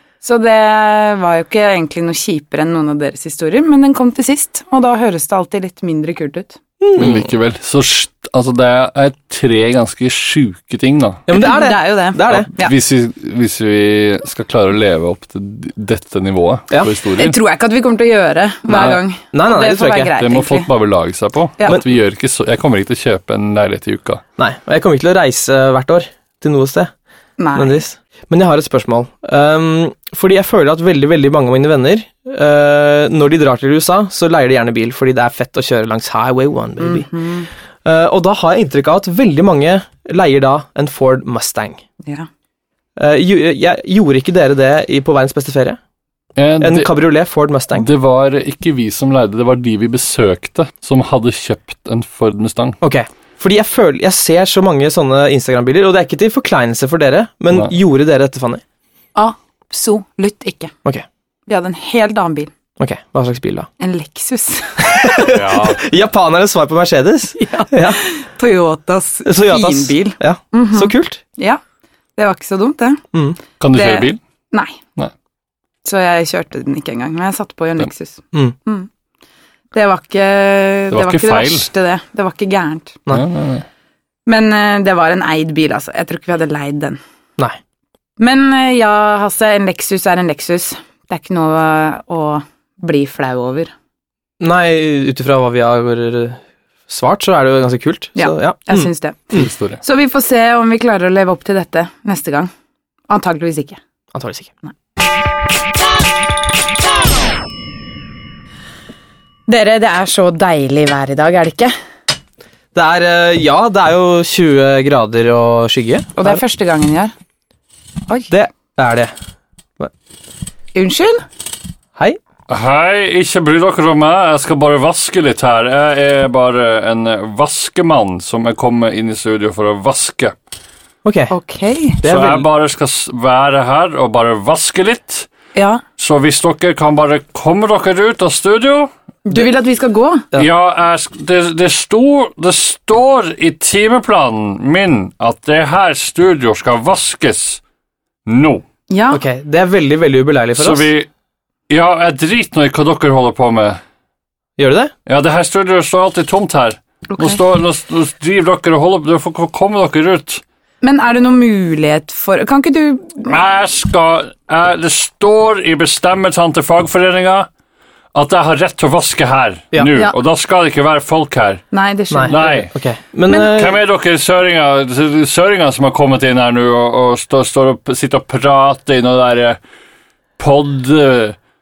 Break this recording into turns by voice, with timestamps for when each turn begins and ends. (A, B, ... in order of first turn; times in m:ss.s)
0:00.2-0:06.6 A
0:06.8-0:07.3 B
0:07.0-0:11.2 C
0:11.3-0:12.5 B
0:11.3-0:12.7 A
0:12.3-0:17.4 C
0:17.2-0:20.7 A
0:18.7-0:20.1 B
0:20.2-0:24.2 C
0:24.4-0:26.9 B
0:27.4-0:27.8 A
0:27.6-0:37.1 B
0:36.8-0:37.5 A
0:37.8-0:41.8 B
0:43.0-0:45.8 B
0:46.4-0:46.9 C
0:46.6-0:47.9 B
0:47.8-0:52.8 C
0:52.8-0:58.6 B
0:59.2-1:00.7 A
1:01.5-1:02.5 A
1:02.8-1:03.7 B
1:03.8-1:05.4 A
1:04.8-1:08.0 B
1:05.2-1:05.8 C
1:07.4-1:11.6 A
1:09.2-1:11.2 B
1:12.2-1:13.0 A
1:13.1-1:13.4 B
1:13.6-1:14.2 C
1:13.7-1:14.8 A
1:15.8-1:18.9 A
1:19.7-1:23.0 A
1:20.9-1:21.7 C
1:23.1-1:23.6 C
1:24.3-1:27.0 A
1:28.2-1:33.7 A
1:34.4-1:39.5 B
1:38.2-1:39.3 A
1:39.3-1:39.8 C
1:39.8-1:42.5 A
1:43.1-1:43.8 A
1:44.1-1:44.5 B
1:49.5-1:51.7 A
1:52.7-1:56.4 B
1:56.2-1:57.1 A
1:58.3-1:59.1 B
2:00.8-2:01.2 A
2:02.5-2:10.4 C
2:11.0-2:11.3 B
2:11.3-2:12.0 A
2:12.0-2:12.5 B
2:12.0-2:15.3 C
2:15.6-2:15.8 A
2:16.0-2:18.9 C
2:19.3-2:20.3 A
2:20.4-2:27.6 C
2:28.3-2:28.6 C
2:28.9-2:29.2 A
2:29.1-2:30.9 B
2:30.6-2:31.1 C
2:31.7-2:33.8 C
2:34.6-2:34.9 B
2:35.1-2:40.4 C
2:37.1-2:37.4 A
2:40.8-2:43.4 A
2:43.3-2:47.5 C
2:48.1-2:51.6 C
2:51.7-2:52.7 A
2:52.1-2:53.8 B
2:52.3-2:52.7 C
2:53.3-2:59.6 C
3:00.4-3:01.4 C